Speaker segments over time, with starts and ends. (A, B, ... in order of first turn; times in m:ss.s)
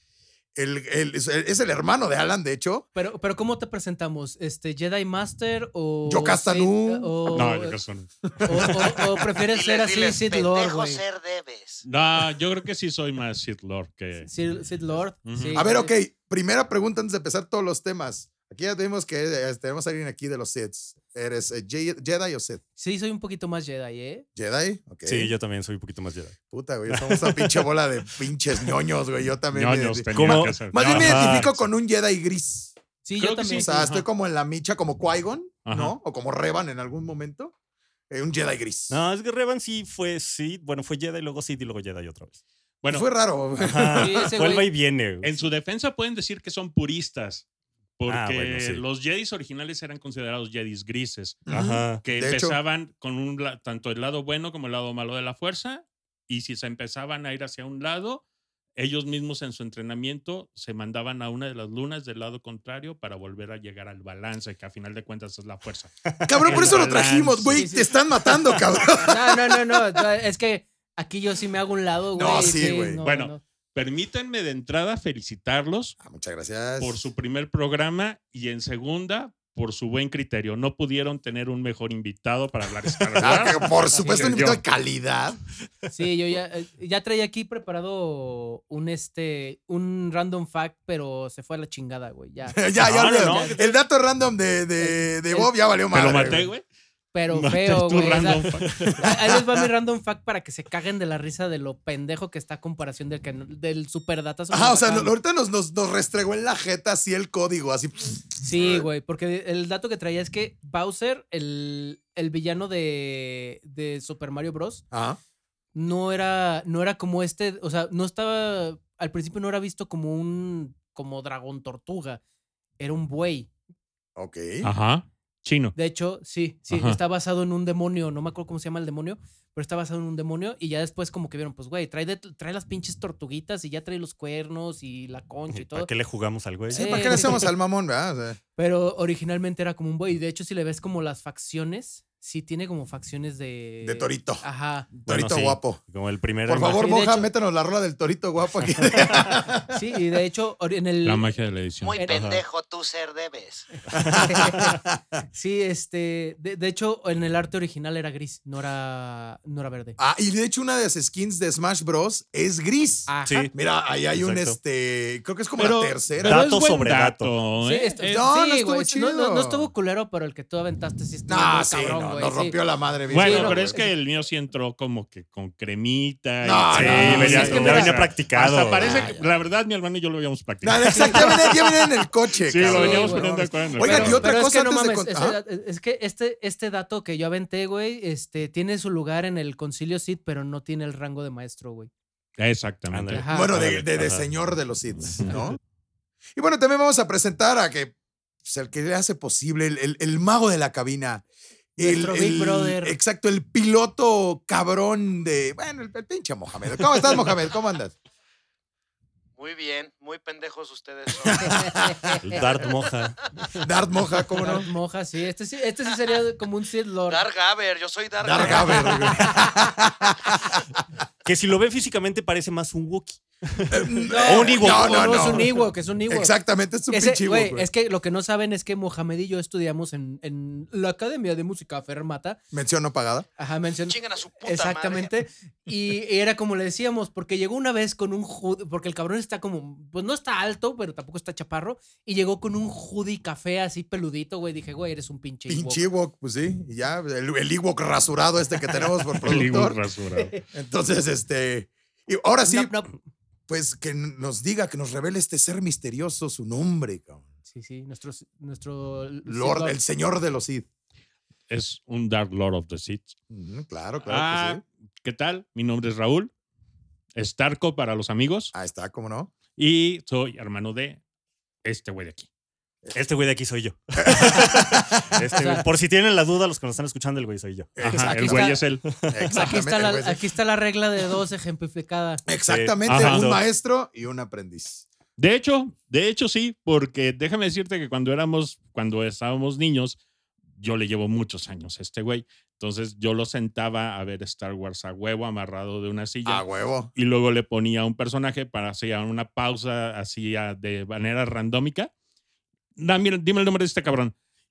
0:00.6-0:02.9 A
0:02.9-0:07.8 B
0:06.0-0:07.1 A
0:07.3-0:08.1 C
0:08.3-0:09.0 A
0:08.4-0:11.0 B
0:09.4-0:11.8 D
0:11.8-0:14.3 C
0:14.2-0:15.9 B
0:15.2-0:15.7 C
0:15.5-0:22.6 A
0:22.8-0:24.2 B
0:24.4-0:25.3 A
0:25.0-0:26.3 E
0:26.5-0:32.7 A
0:26.9-0:27.7 E
0:29.5-0:31.6 C
0:30.1-0:31.5 E
0:33.0-0:34.0 B
0:33.2-0:33.9 C
0:33.5-0:37.5 A
0:35.6-0:36.0 C
0:38.1-0:39.0 A
0:38.9-0:42.4 E
0:42.8-0:43.1 C
0:42.9-0:44.2 A
0:43.6-0:45.3 E
0:44.0-0:44.7 B
0:45.2-0:47.4 C
0:48.0-0:51.4 C
0:48.1-0:48.8 E
0:51.5-0:52.6 A
0:51.5-0:52.0 E
0:52.0-0:58.2 C
0:58.8-1:07.6 C
1:06.2-1:09.7 A
1:07.5-1:08.0 B
1:09.0-1:13.4 B
1:12.1-1:13.0 A
1:13.0-1:16.0 C
1:16.0-1:17.0 A
1:16.8-1:24.6 C
1:23.2-1:25.4 A
1:24.0-1:24.3 B
1:25.9-1:33.8 B
1:32.5-1:36.5 A
1:32.8-1:33.7 E
1:34.8-1:35.6 B
1:35.9-1:36.6 C
1:36.1-1:36.4 E
1:37.1-1:45.1 B
1:37.3-1:39.1 C
1:38.6-1:39.1 E
1:44.5-1:48.9 A
1:48.4-1:54.8 B
1:54.9-1:55.2 A
1:55.7-2:02.2 B
2:02.8-2:03.5 B
2:04.2-2:04.7 A
2:04.6-2:05.8 C
2:05.7-2:15.9 B
2:06.7-2:07.0 C
2:15.5-2:17.4 E
2:16.7-2:18.4 A
2:16.7-2:17.5 B
2:18.6-2:24.9 B
2:23.8-2:24.4 A
2:25.0-2:25.8 A
2:25.0-2:26.8 E
2:26.4-2:29.7 A
2:26.7-2:27.3 B
2:28.6-2:29.2 E
2:29.7-2:31.3 B
2:31.0-2:32.0 C
2:31.8-2:33.7 D
2:31.9-2:32.2 B
2:32.1-2:32.4 E
2:33.7-2:34.8 B
2:33.9-2:35.0 A
2:35.3-2:40.0 B
2:40.0-2:46.4 A
2:43.1-2:43.5 B
2:43.2-2:43.5 E
2:44.1-2:44.6 E
2:45.6-2:48.2 C
2:46.2-2:47.3 E
2:47.6-2:53.9 B
2:48.0-2:49.7 A
2:51.3-2:53.8 A
2:53.1-3:01.9 C
2:56.4-2:57.9 A
2:56.7-2:59.0 E
2:57.1-2:57.9 B
2:58.5-2:59.3 A
3:00.6-3:05.4 A
3:00.8-3:01.4 B
3:02.4-3:04.2 C
3:02.6-3:11.9 B
3:03.8-3:04.2 E
3:12.4-3:13.2 C
3:12.9-3:14.3 E
3:13.1-3:13.5 B
3:13.3-3:15.6 A
3:16.4-3:27.9 A
3:21.8-3:23.0 B
3:29.4-3:31.9 D
3:31.2-3:32.2 A
3:31.4-3:32.1 B
3:32.2-3:33.3 E
3:33.6-3:34.7 A
3:34.4-3:37.3 B
3:37.1-3:39.3 D
3:38.2-3:40.6 A
3:38.4-3:39.7 B
3:41.2-3:45.6 E
3:43.7-3:47.7 A
3:44.0-3:46.3 B
3:46.9-3:52.4 B
3:52.5-3:53.3 A
3:53.4-4:05.8 B
3:53.8-3:55.1 D
4:05.5-4:09.8 A
4:09.2-4:10.3 C
4:10.4-4:12.7 A
4:12.4-4:12.9 B
4:13.5-4:17.2 A
4:17.5-4:19.8 B
4:19.2-4:20.6 A
4:21.5-4:23.2 C
4:23.3-4:24.6 A
4:24.0-4:26.3 C
4:27.1-4:28.5 C
4:28.5-4:29.3 A
4:29.6-4:31.0 C
4:31.6-4:32.3 C
4:32.9-4:39.5 E
4:34.0-4:35.2 A
4:35.3-4:35.6 B
4:37.8-4:38.1 A
4:37.8-4:38.8 C
4:38.0-4:38.6 B
4:39.1-4:40.2 A
4:39.3-4:42.2 B
4:42.3-4:44.8 A
4:42.4-4:43.4 E
4:42.8-4:43.2 C
4:45.2-4:50.0 C
4:50.6-5:01.9 C
4:56.2-4:56.9 A
5:02.8-5:04.1 C